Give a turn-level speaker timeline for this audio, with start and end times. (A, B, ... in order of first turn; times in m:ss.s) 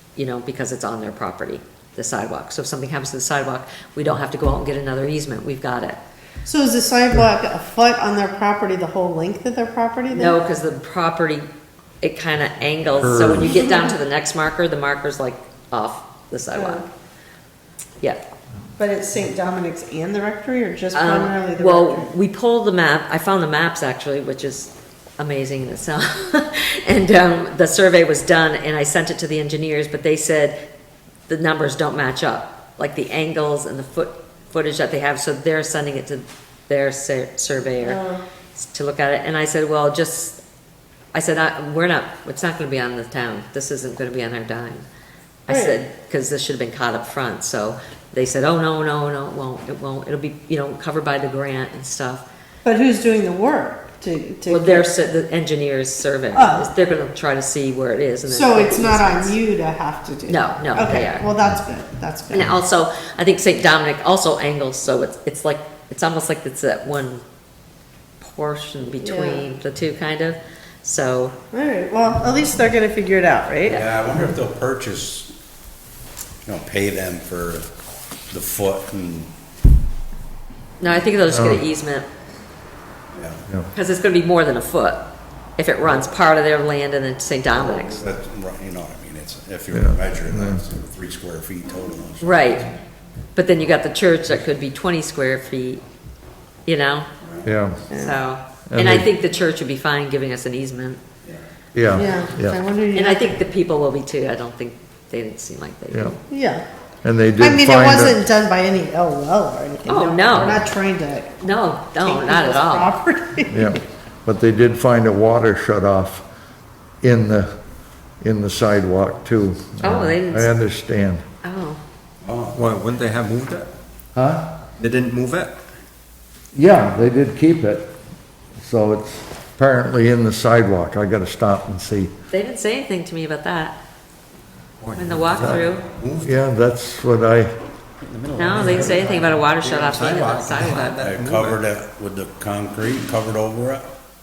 0:00.2-0:06.0 A
0:06.4-0:10.4 B
0:10.1-0:11.5 A
0:12.0-0:16.8 A
0:13.0-0:13.5 C
0:13.4-0:13.9 B
0:16.5-0:16.8 B
0:18.8-0:22.1 B
0:20.9-0:30.6 A
0:31.3-0:38.0 A
0:37.8-0:38.2 B
0:38.5-0:40.4 A
0:41.1-0:44.8 A
0:45.5-0:52.2 A
0:45.5-0:45.8 B
0:52.6-0:54.9 B
0:54.5-0:59.4 A
0:56.3-0:56.7 B
0:58.3-1:02.5 B
1:00.3-1:01.3 A
1:02.3-1:07.2 A
1:08.2-1:11.3 A
1:09.0-1:09.4 B
1:11.5-1:13.8 B
1:13.7-1:15.3 D
1:16.4-1:17.6 D
1:18.3-1:19.3 D
1:20.8-1:22.1 A
1:21.3-1:21.6 C
1:23.1-1:23.4 D
1:23.7-1:25.0 A
1:25.6-1:28.0 A
1:27.7-1:32.5 D
1:29.7-1:30.6 C
1:32.2-1:32.7 A
1:33.3-1:35.8 A
1:36.6-1:37.1 A
1:37.4-1:37.9 C
1:37.9-1:38.2 B
1:38.0-1:41.0 A
1:38.7-1:39.1 C
1:41.7-1:42.6 C
1:41.9-1:43.3 B
1:42.9-1:46.2 A
1:45.9-1:46.2 C
1:46.3-1:46.6 B
1:47.0-1:48.2 C
1:47.4-1:51.3 B
1:49.8-1:50.6 A
1:51.4-1:52.9 A
1:52.0-1:53.7 B
1:53.5-1:56.2 C
1:57.0-1:57.5 C
1:58.2-2:01.2 C
1:59.8-2:00.5 A
2:01.4-2:01.8 A
2:02.2-2:02.6 D
2:02.5-2:03.7 E
2:04.1-2:04.6 C
2:04.8-2:05.5 E
2:06.5-2:07.9 C
2:08.6-2:12.1 C
2:12.3-2:13.8 A
2:14.8-2:16.3 E
2:15.0-2:15.8 A
2:15.4-2:15.6 C
2:16.2-2:17.5 C
2:18.1-2:21.6 E
2:18.4-2:21.0 A
2:18.5-2:19.0 C
2:21.0-2:23.9 D